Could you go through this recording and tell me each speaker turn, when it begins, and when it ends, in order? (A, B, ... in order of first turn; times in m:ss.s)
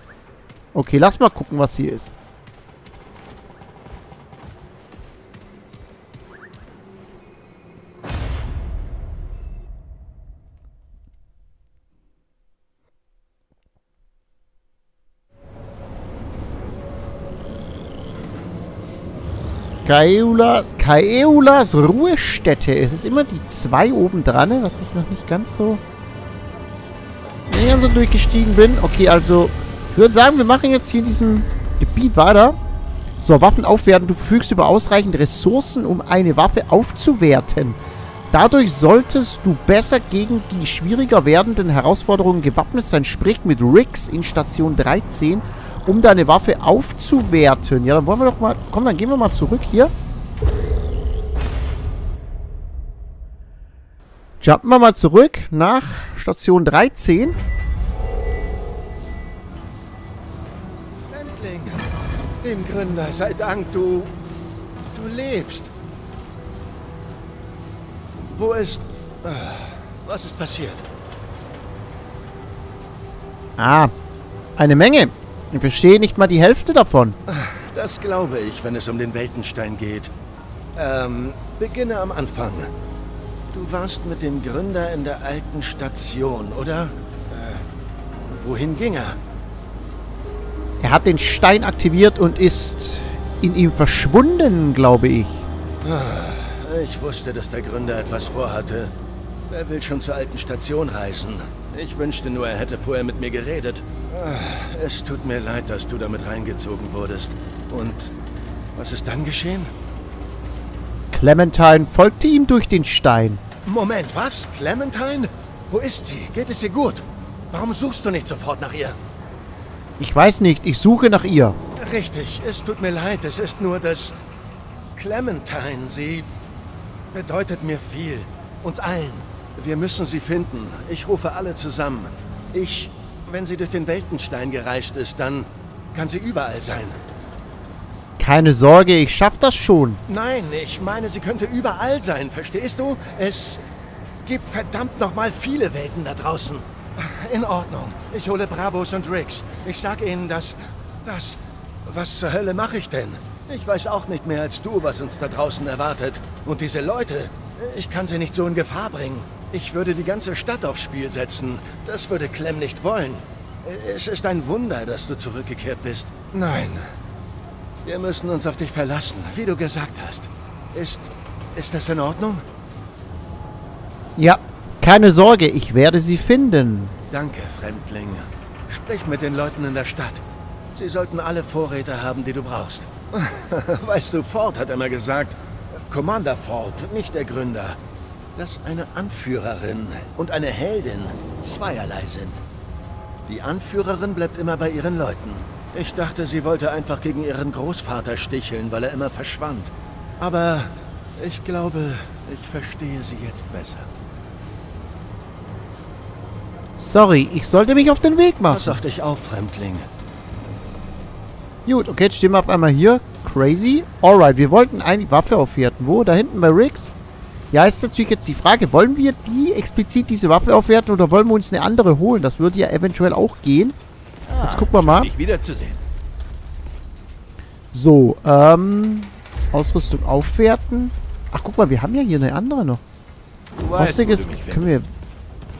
0:00.7-0:02.1 A
0:19.8-0:25.8 A
0:27.5-0:32.6 A
0:33.2-0:37.8 A
0:38.3-0:49.9 A
0:54.4-0:57.4 A
1:01.1-1:01.8 B
1:02.4-1:04.1 B
1:04.9-1:05.7 B
1:08.2-1:10.8 B
1:13.6-1:13.9 A
1:14.6-1:17.2 A
1:17.3-1:20.1 B
1:20.7-1:22.7 B
1:23.5-1:27.6 B
1:28.3-1:29.2 B
1:30.8-1:35.4 A
1:35.8-1:38.9 B
1:39.5-1:48.1 B
1:48.8-1:49.7 B
1:51.1-1:53.4 A
1:53.6-1:59.0 B
2:00.0-2:01.6 A
2:01.8-2:04.2 B
2:05.0-2:06.3 B
2:07.1-2:17.0 B
2:18.2-2:20.0 A
2:20.1-2:23.6 B
2:24.2-2:46.9 B
2:47.8-2:52.4 B
2:54.2-2:56.9 A
2:57.1-3:00.2 B
3:00.7-3:05.4 B
3:05.9-3:07.8 B
3:08.4-3:12.4 B
3:13.2-3:23.9 B
3:26.8-3:28.8 A
3:28.5-3:29.8 B
3:31.6-3:36.9 A
3:37.5-3:43.8 A
3:44.3-3:45.8 C
3:44.4-3:45.1 A
3:47.7-3:52.8 A
3:53.6-3:54.8 C
3:53.7-3:54.9 A